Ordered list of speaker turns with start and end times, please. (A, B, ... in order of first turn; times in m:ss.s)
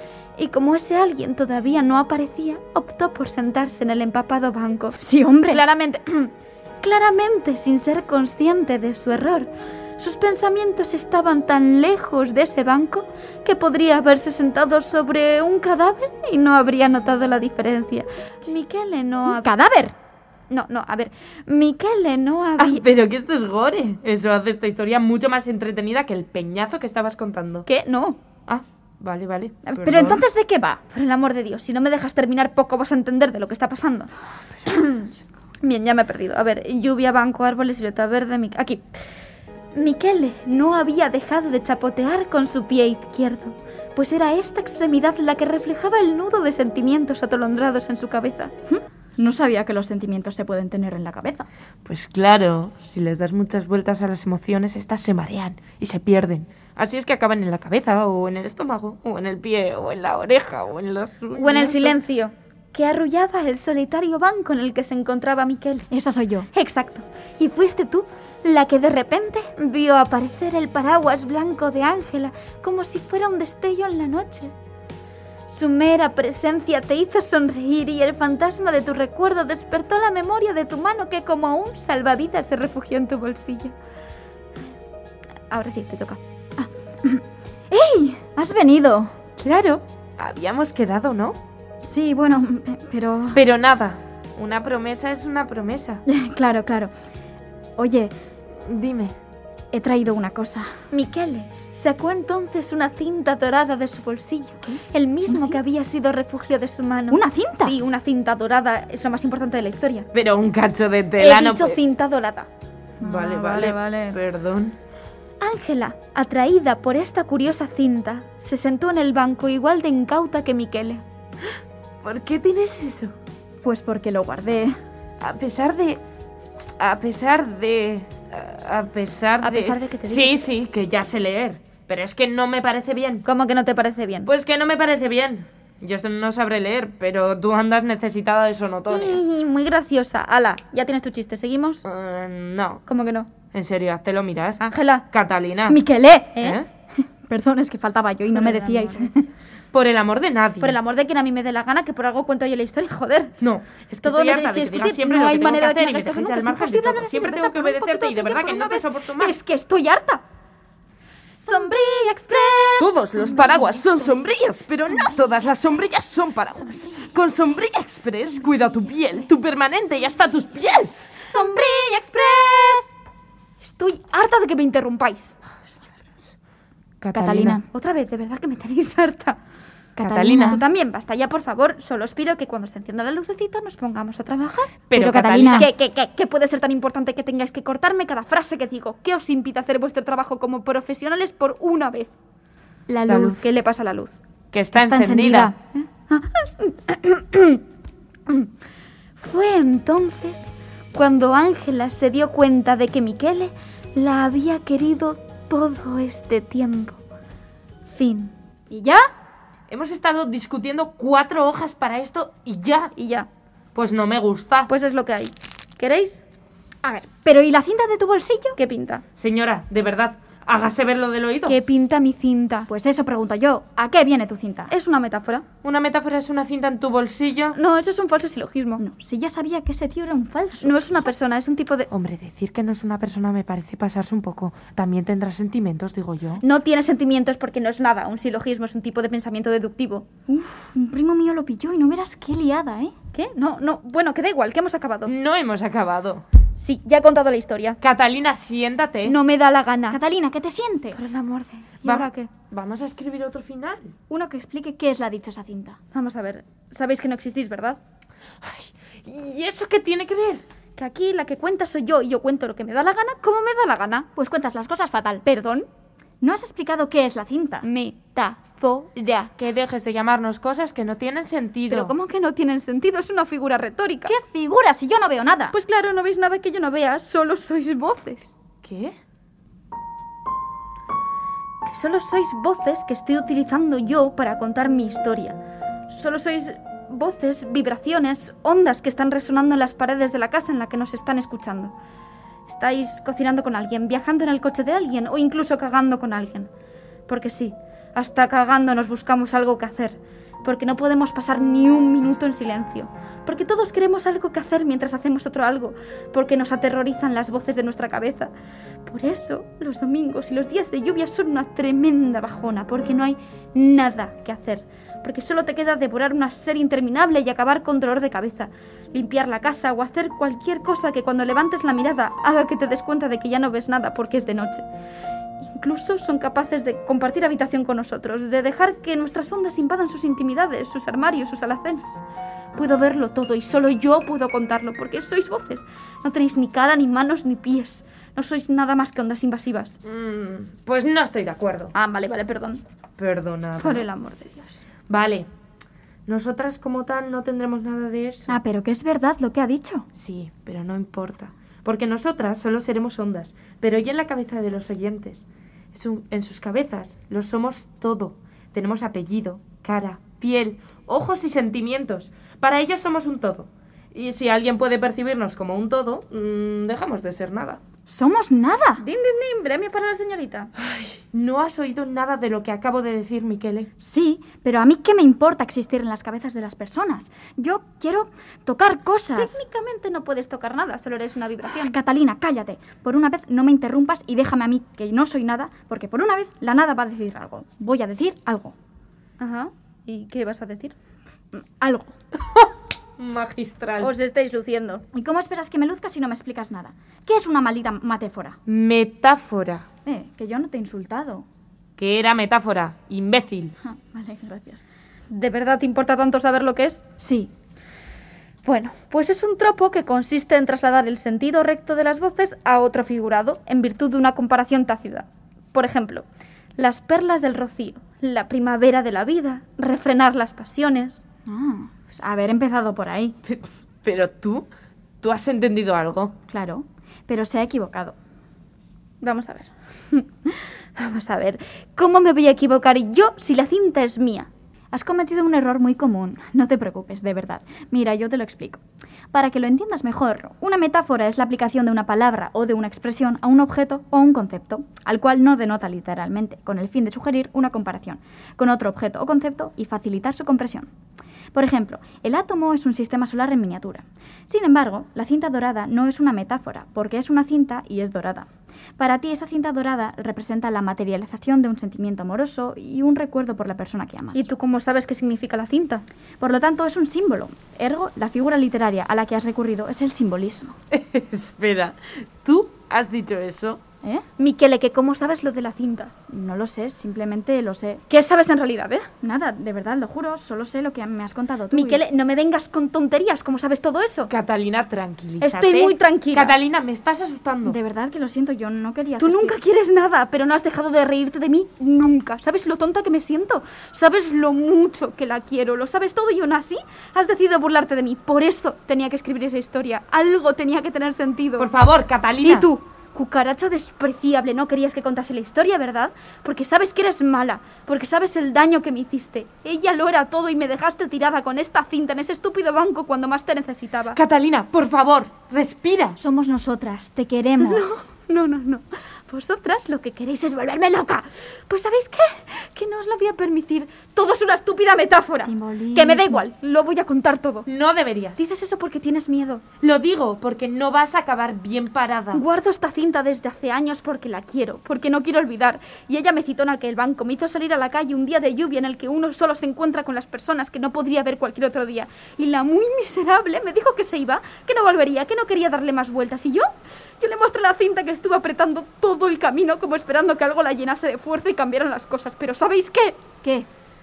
0:00.4-0:05.0 A
0:05.0-0:05.6 B
0:05.5-0:19.5 A
0:19.3-0:20.0 B
0:20.5-0:22.8 A
0:22.6-0:27.7 C
0:27.7-0:28.2 A
0:28.5-0:30.2 C
0:29.6-0:30.8 B
0:30.9-0:34.1 A
0:34.7-0:35.1 A
0:35.6-0:38.8 A
0:39.7-0:48.5 A
0:48.7-0:51.5 B
0:51.8-1:02.0 C
1:01.4-1:05.9 A
1:05.9-1:06.5 B
1:06.5-1:14.5 A
1:15.5-1:23.7 A
1:25.5-1:26.2 A
1:26.6-1:29.1 B
1:29.4-1:31.4 C
1:31.8-1:33.4 B
1:33.3-1:36.0 C
1:36.1-1:36.9 B
1:37.8-1:38.1 B
1:38.6-1:39.2 C
1:39.7-1:40.7 B
1:40.9-1:50.1 A
1:44.7-1:45.6 B
1:47.1-1:47.8 B
1:50.1-1:51.8 C
1:51.2-1:52.5 A
1:53.0-1:54.2 B
1:53.0-1:54.8 C
1:55.4-2:01.0 A
2:02.0-2:03.1 C
2:03.6-2:04.8 B
2:05.2-2:06.0 C
2:06.8-2:13.3 C
2:09.4-2:10.4 A
2:13.2-2:14.3 A
2:14.2-2:19.2 C
2:18.9-2:21.8 A
2:21.8-2:22.8 C
2:22.9-2:23.3 A
2:23.5-2:25.8 C
2:24.6-2:25.1 A
2:25.7-2:26.4 B
2:26.4-2:26.6 A
2:26.4-2:26.7 C
2:27.0-2:29.2 B
2:28.3-2:29.1 A
2:29.7-2:30.8 C
2:30.6-2:33.4 A
2:33.4-2:39.4 C
2:34.0-2:40.2 A
2:41.3-2:43.9 A
2:42.8-2:51.2 C
2:43.3-2:44.0 B
2:51.2-2:52.9 A
2:53.6-2:55.4 A
2:57.0-2:57.6 C
2:57.1-2:57.6 B
2:57.7-2:59.4 A
3:00.0-3:00.6 B
3:00.0-3:00.6 C
3:00.4-3:04.8 A
3:04.9-3:05.7 C
3:04.9-3:05.7 B
3:05.5-3:12.1 A
3:12.9-3:13.4 B
3:13.1-3:14.2 A
3:13.1-3:13.4 C
3:14.5-3:15.5 C
3:14.8-3:15.6 B
3:15.7-3:17.6 A
3:19.2-3:27.0 A
3:27.9-3:28.3 A
3:28.7-3:29.0 B
3:29.7-3:32.9 C
3:33.0-3:33.3 A
3:33.8-3:34.7 C
3:34.7-3:36.2 A
3:36.8-3:38.6 B
3:38.6-3:39.0 A
3:39.2-3:41.6 C
3:41.4-3:42.7 A
3:42.7-3:44.7 B
3:44.7-3:45.4 A
3:45.6-3:47.6 C
3:47.5-3:48.8 A
3:48.8-3:50.9 B
3:50.6-3:51.9 A
3:51.9-3:56.4 C
3:56.4-4:00.1 A
4:00.3-4:02.9 B
4:03.1-4:05.1 A
4:05.1-4:06.2 C
4:06.6-4:07.8 A
4:07.8-4:09.2 C
4:09.0-4:10.0 A
4:09.9-4:11.1 B
4:10.9-4:12.3 A
4:11.8-4:13.9 C
4:14.1-4:15.8 B
4:15.9-4:17.8 A
4:18.4-4:20.4 C
4:20.8-4:24.1 A
4:24.2-4:25.2 B
4:25.2-4:25.7 A
4:26.2-4:27.7 B
4:27.6-4:29.3 A
4:29.4-4:31.9 C
4:31.7-4:34.1 A
4:34.1-4:35.6 B
4:35.5-4:38.4 A
4:38.6-4:38.9 C
4:41.7-4:45.4 A
4:45.9-4:51.7 A
4:52.5-4:56.5 A
4:57.1-5:08.3 A
5:08.9-5:24.6 A
5:25.4-5:32.0 A
5:32.6-5:39.8 A
5:39.8-5:41.7 C
5:41.7-5:42.6 A
5:43.0-5:43.8 C
5:43.6-5:44.6 A
5:44.9-5:45.3 C
5:46.1-5:48.3 C
5:48.3-5:49.9 B
5:50.0-6:07.6 C
6:07.9-6:08.8 B
6:08.8-6:10.5 A
6:10.6-6:13.7 C
6:13.8-6:19.4 B
6:19.2-6:21.8 A
6:21.6-6:28.6 B
6:29.2-6:30.7 A
6:31.3-6:31.9 B
6:33.0-6:33.9 C
6:33.8-6:34.8 A
6:34.9-6:38.4 B
6:38.5-6:39.7 C
6:39.8-6:41.2 B
6:41.8-6:43.5 C
6:43.6-6:44.6 B
6:45.1-6:46.8 A
6:47.0-6:47.3 B
6:48.4-6:56.0 A
6:56.6-7:01.0 A
7:01.3-7:03.2 B
7:03.3-7:04.5 C
7:05.0-7:06.1 C
7:06.3-7:08.0 B
7:09.0-7:14.3 A
7:14.7-7:18.6 B
7:19.1-7:30.7 B
7:31.3-7:44.3 B
7:44.1-7:45.8 A
7:46.2-7:50.6 B
7:50.7-7:53.6 C
7:54.2-7:55.9 A
7:56.1-7:57.8 B
7:57.9-7:58.9 A
7:59.0-8:01.8 B
8:01.5-8:04.1 A
8:04.1-8:07.6 C
8:05.2-8:06.4 A
8:07.4-8:09.4 B
8:09.0-8:21.5 A
8:21.4-8:22.5 C
8:22.2-8:34.0 A
8:33.9-8:36.0 C
8:36.0-8:37.6 B
8:37.4-8:47.5 A
8:45.2-8:46.3 B
8:47.5-8:48.2 C
8:48.2-8:49.4 A
8:49.6-8:52.2 C
8:52.1-9:06.5 A
9:07.0-9:13.4 A